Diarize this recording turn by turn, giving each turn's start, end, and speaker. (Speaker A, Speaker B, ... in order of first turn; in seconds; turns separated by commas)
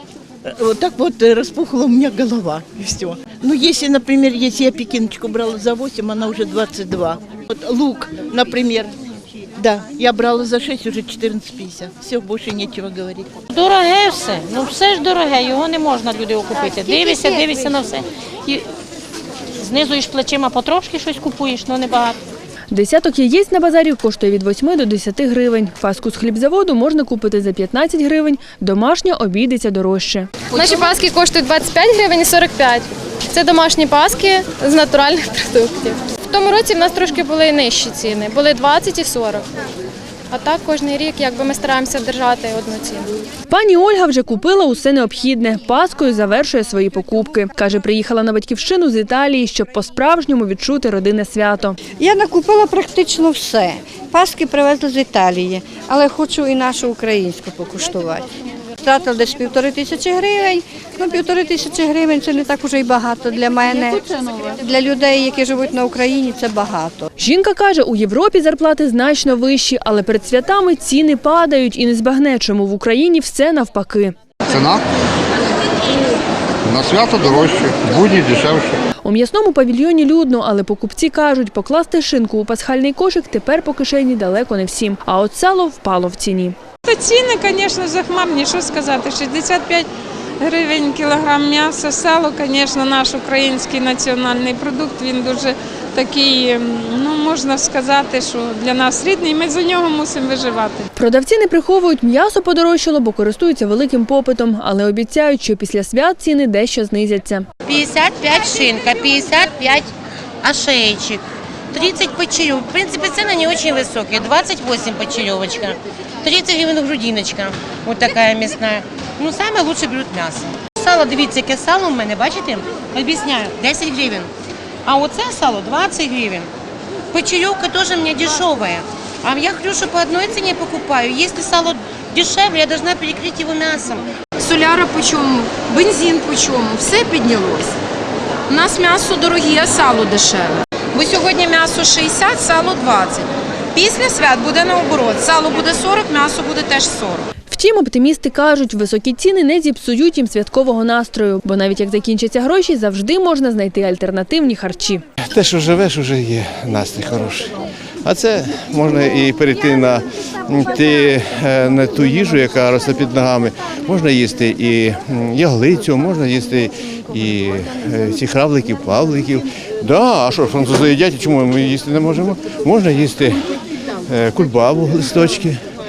Speaker A: 0.4-8.9, Speaker A: 9.6-13.3, Speaker B: 13.5-18.6, Speaker B: 19.6-22.2, Speaker C: 22.7-30.3, Speaker D: 30.5-39.4, Speaker D: 40.3-43.1, Speaker C: 43.5-51.8, Speaker E: 52.0-58.3, Speaker E: 58.8-67.1, Speaker C: 67.2-74.1, Speaker F: 74.5-74.8, Speaker F: 76.6-78.8, Speaker C: 79.0-86.5, Speaker G: 86.8-89.9, Speaker G: 90.4-100.8, Speaker C: 101.0-107.5, Speaker H: 107.7-109.9, Speaker H: 110.4-124.3, Speaker H: 124.8-126.5, Speaker H: 127.1-134.1, Speaker I: 134.4-137.7, Speaker I: 138.5-147.2, Speaker C: 147.5-155.0, Speaker J: 155.3-173.4, Speaker J: 174.1-175.6